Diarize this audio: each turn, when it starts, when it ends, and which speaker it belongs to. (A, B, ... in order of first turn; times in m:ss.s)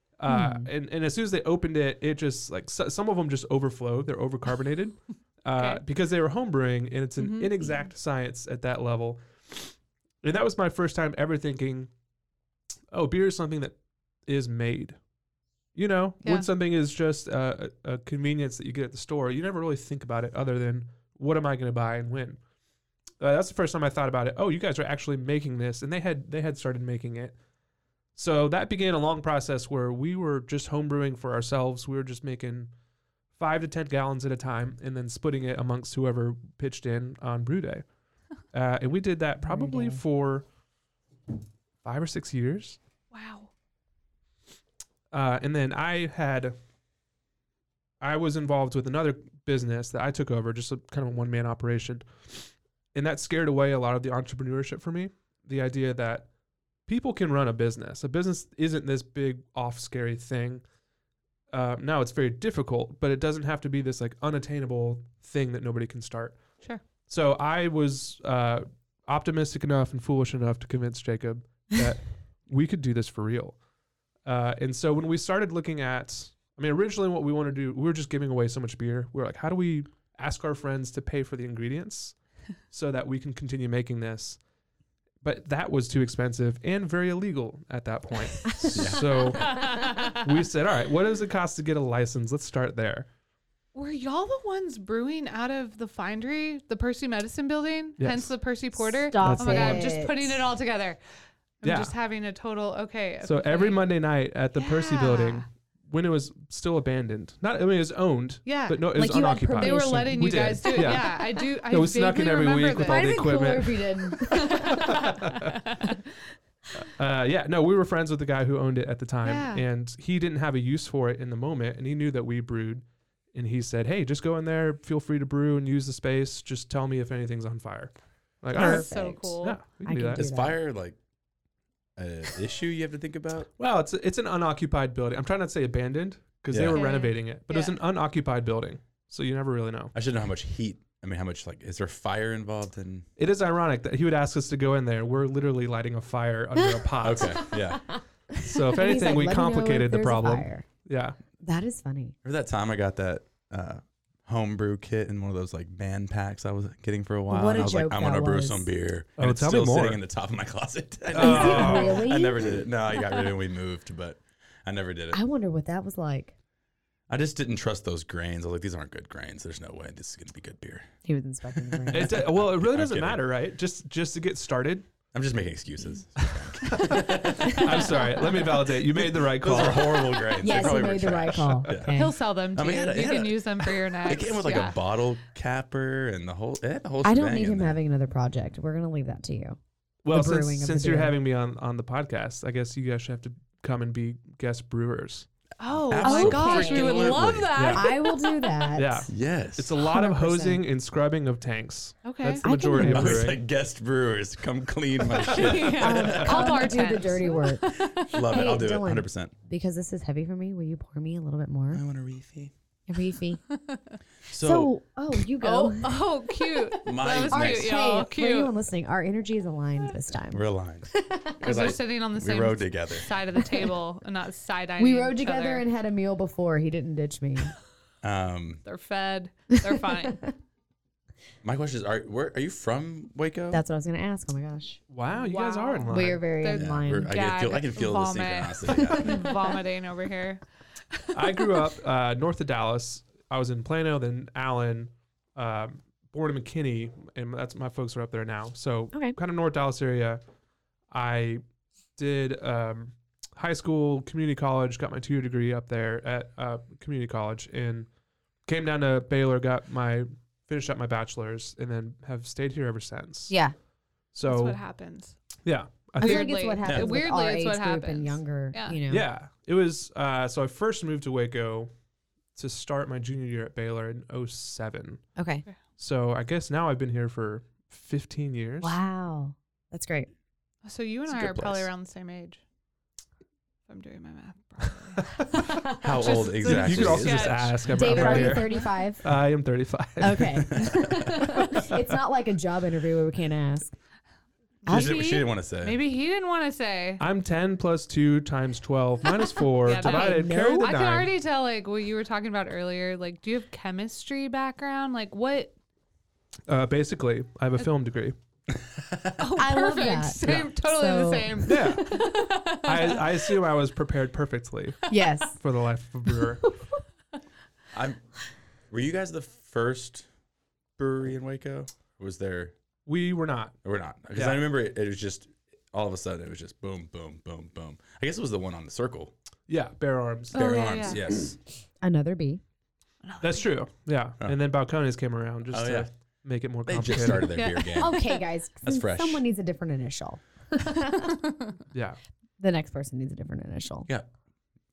0:00.2-0:11.9 A
0:00.3-0:00.7 B
0:05.6-0:05.8 C
0:07.2-0:07.9 C
0:12.9-0:13.8 A
0:14.3-0:15.0 A
0:15.8-0:22.4 A
0:16.2-0:16.5 C
0:23.2-0:27.3 A
0:28.2-0:32.7 A
0:33.4-0:37.8 A
0:38.5-0:40.4 A
0:39.4-0:40.0 B
0:41.8-0:42.8 A
0:43.1-0:43.5 C
0:45.1-0:46.6 A
0:48.0-0:56.3 A
0:56.9-1:00.6 A
1:01.5-1:06.4 A
1:07.1-1:13.6 A
1:14.2-1:22.2 A
1:22.7-1:24.4 A
1:25.2-1:33.1 A
1:28.7-1:29.1 D
1:29.5-1:30.2 C
1:33.7-1:41.0 C
1:38.0-1:38.3 A
1:39.0-1:40.5 B
1:39.2-1:39.9 A
1:41.6-1:43.8 C
1:41.6-1:41.9 A
1:43.2-1:55.6 A
1:44.6-1:45.4 C
1:48.4-1:53.4 C
1:48.9-1:51.4 B
1:52.8-1:55.1 B
1:54.4-1:55.0 C
1:55.7-1:56.0 C
1:56.8-2:10.3 A
1:59.2-1:59.6 C
2:08.5-2:09.6 C
2:08.5-2:10.6 B
2:10.2-2:11.0 D
2:12.0-2:13.5 D
2:13.6-2:19.9 A
2:16.5-2:16.8 D
2:16.7-2:17.8 C
2:19.9-2:23.1 D
2:23.2-2:27.5 A
2:27.0-2:27.9 D
2:27.5-2:30.7 B
2:28.4-2:31.2 A
2:31.4-2:32.2 B
2:32.2-2:45.2 D
2:37.3-2:38.7 B
2:39.2-2:40.0 A
2:41.1-2:42.0 A
2:41.2-2:42.7 B
2:45.1-2:46.4 B
2:47.1-2:50.9 D
2:51.0-2:52.2 B
2:51.5-2:53.2 D
2:51.9-2:54.9 A
2:55.1-2:58.0 D
2:56.6-3:00.2 A
2:58.9-3:01.9 D
3:00.4-3:02.1 B
3:01.9-3:04.8 C
3:02.5-3:07.8 D
3:07.0-3:09.6 B
3:10.0-3:15.3 A
3:10.1-3:11.2 B
3:15.6-3:18.7 C
3:15.8-3:17.5 D
3:16.0-3:19.1 B
3:17.5-3:17.9 A
3:18.8-3:23.4 A
3:19.1-3:19.7 D
3:19.8-3:20.6 B
3:22.0-3:22.4 C
3:22.4-3:23.3 B
3:22.8-3:26.4 D
3:25.1-3:28.2 C
3:25.8-3:31.8 B
3:28.0-3:29.3 D
3:31.7-3:32.5 D
3:32.9-3:33.4 B
3:33.5-3:34.0 C
3:34.3-3:34.7 D
3:34.4-3:41.6 B
3:35.4-3:38.5 C
3:36.8-3:37.9 D
3:40.3-3:43.1 D
3:41.4-3:45.6 C
3:43.4-3:43.7 B
3:44.8-3:47.5 B
3:48.0-3:48.6 D
3:48.6-3:50.2 C
3:50.0-3:50.3 B
3:51.4-3:53.6 D
3:53.5-3:54.8 B
3:54.9-3:56.3 A
3:55.1-4:00.4 C
3:55.9-3:57.1 B
3:56.5-3:59.3 D
3:58.9-3:59.3 B
4:00.9-4:01.5 C
4:01.1-4:10.2 A
4:10.9-4:11.4 A
4:12.0-4:17.9 A
4:18.5-4:23.4 A
4:23.3-4:23.6 B
4:24.1-4:24.6 A
4:24.2-4:25.2 C
4:25.4-4:26.3 A
4:26.0-4:29.1 B
4:26.0-4:28.8 C
4:26.6-4:26.9 D
4:28.9-4:31.7 A
4:32.4-4:35.0 A
4:35.2-4:35.5 B
4:35.8-4:38.8 A
4:38.6-4:40.1 B
4:40.6-4:42.4 C
4:41.1-4:41.7 D
4:43.7-4:48.8 C
4:45.8-4:47.5 D
4:46.4-4:50.5 A
4:47.7-4:49.0 B
4:50.0-4:53.7 B
4:50.5-4:51.2 D
4:54.6-4:57.0 C
4:54.7-4:55.8 D
4:54.7-4:55.0 B
4:57.0-5:01.1 A
4:59.6-5:05.5 C
4:59.8-5:00.7 B
5:06.5-5:08.1 A
5:08.8-5:09.2 D
5:09.2-5:13.1 C
5:09.4-5:12.0 B
5:11.4-5:11.9 A
5:12.6-5:14.8 A
5:14.9-5:15.4 B
5:15.4-5:16.5 A
5:17.7-5:18.0 D
5:18.7-5:20.1 D
5:20.8-5:22.5 D
5:22.9-5:23.6 A
5:23.6-5:29.1 D
5:24.1-5:24.4 A
5:29.5-5:30.4 A
5:30.3-5:31.0 C
5:30.3-5:31.4 D
5:31.8-5:32.4 B
5:33.0-5:33.5 C
5:33.2-5:37.3 A
5:35.5-5:35.9 D
5:36.7-5:38.0 D
5:37.3-5:38.0 C
5:37.8-5:41.2 B
5:38.6-5:39.2 D
5:41.7-5:42.0 A
5:42.4-5:43.9 B